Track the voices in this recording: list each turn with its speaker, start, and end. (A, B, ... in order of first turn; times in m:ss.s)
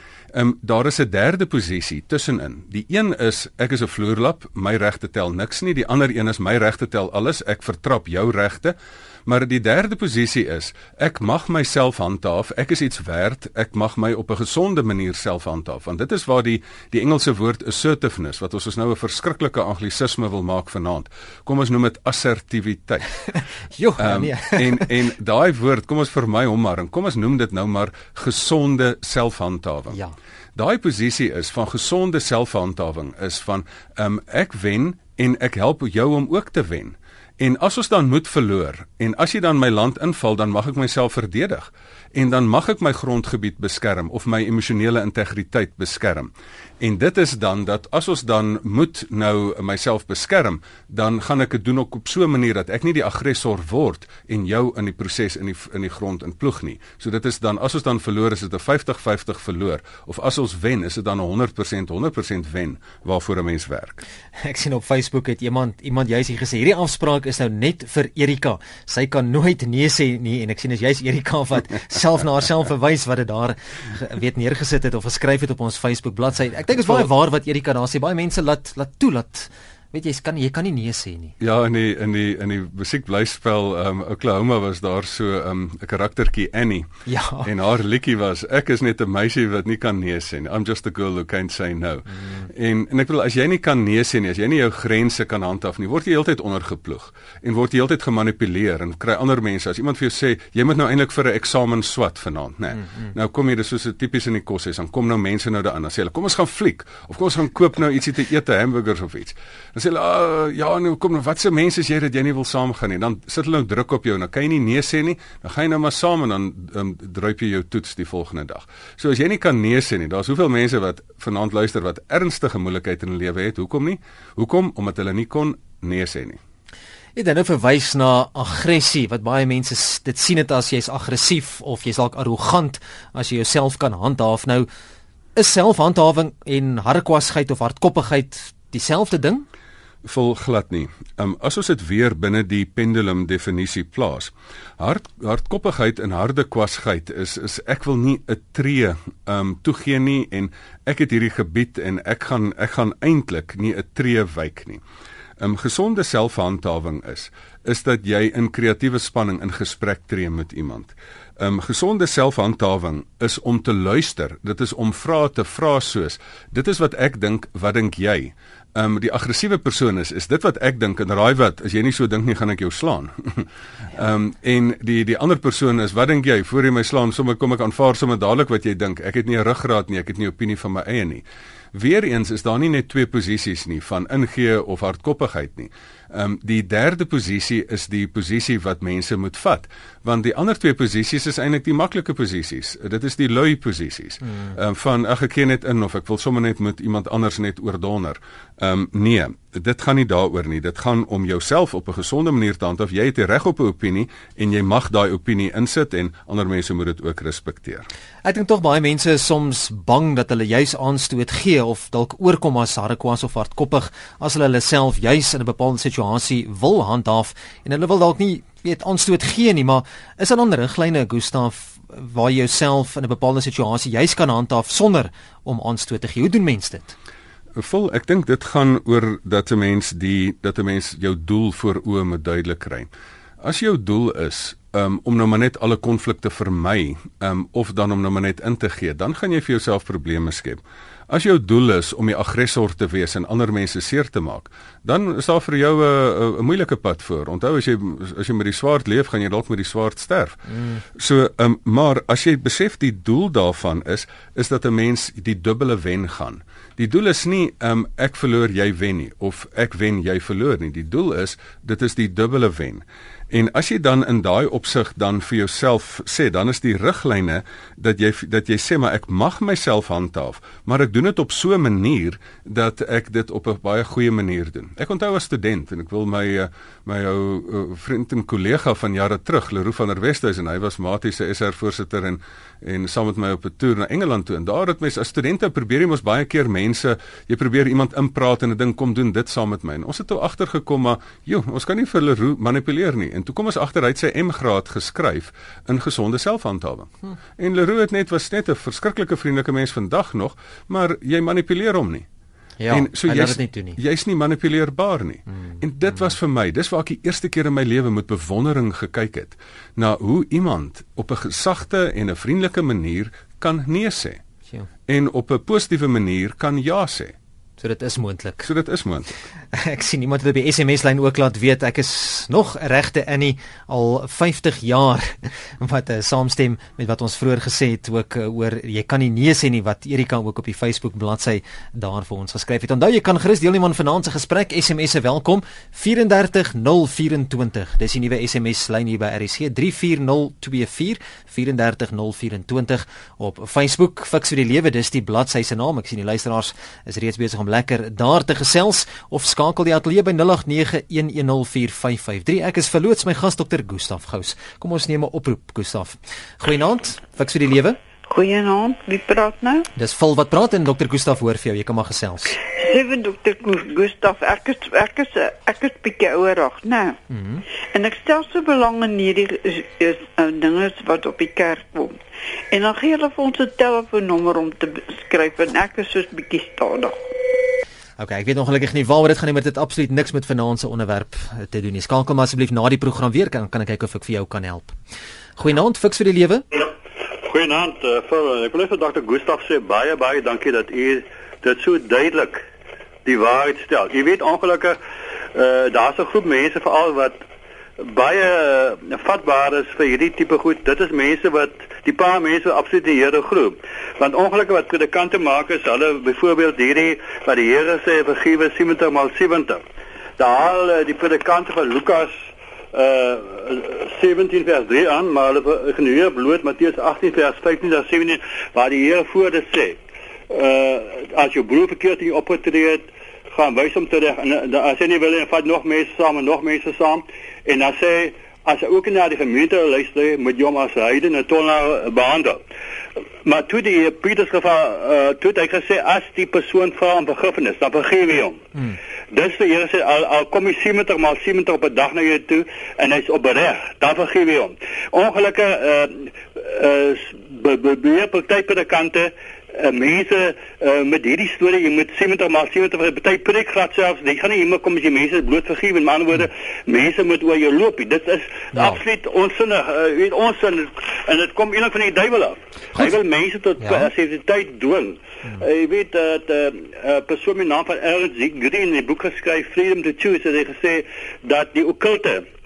0:00.3-0:23.1 A
0:23.8-0:24.9 B
0:24.0-0:30.0 A
0:30.6-1:04.0 A
1:04.4-1:21.4 B
1:21.4-1:26.9 A
1:27.1-1:27.5 B
1:27.4-2:06.4 A
2:07.2-2:14.7 B
2:15.4-2:19.5 B
2:20.0-2:34.8 A
2:35.4-3:27.9 A
3:28.2-3:47.0 B
3:47.6-3:52.9 A
3:53.4-5:02.1 A
5:02.6-5:03.8 B
5:02.7-5:14.2 A
5:14.9-5:17.2 A
5:17.6-5:18.5 B
5:18.4-5:19.1 A
5:19.5-5:57.8 B
5:58.1-5:59.7 C
5:59.8-6:02.4 B
6:02.4-6:07.0 C
6:07.1-6:07.4 B
6:07.7-6:12.0 C
6:12.5-6:17.4 C
6:18.0-6:24.8 B
6:25.4-6:26.4 B
6:27.2-6:32.4 D
6:33.0-6:34.8 D
6:35.3-6:37.2 D
6:37.8-6:49.6 D
6:50.2-6:52.2 D
6:52.7-7:12.4 D
7:13.2-7:18.4 D
7:19.1-7:52.2 D
7:38.5-7:38.8 B
7:43.6-7:43.9 B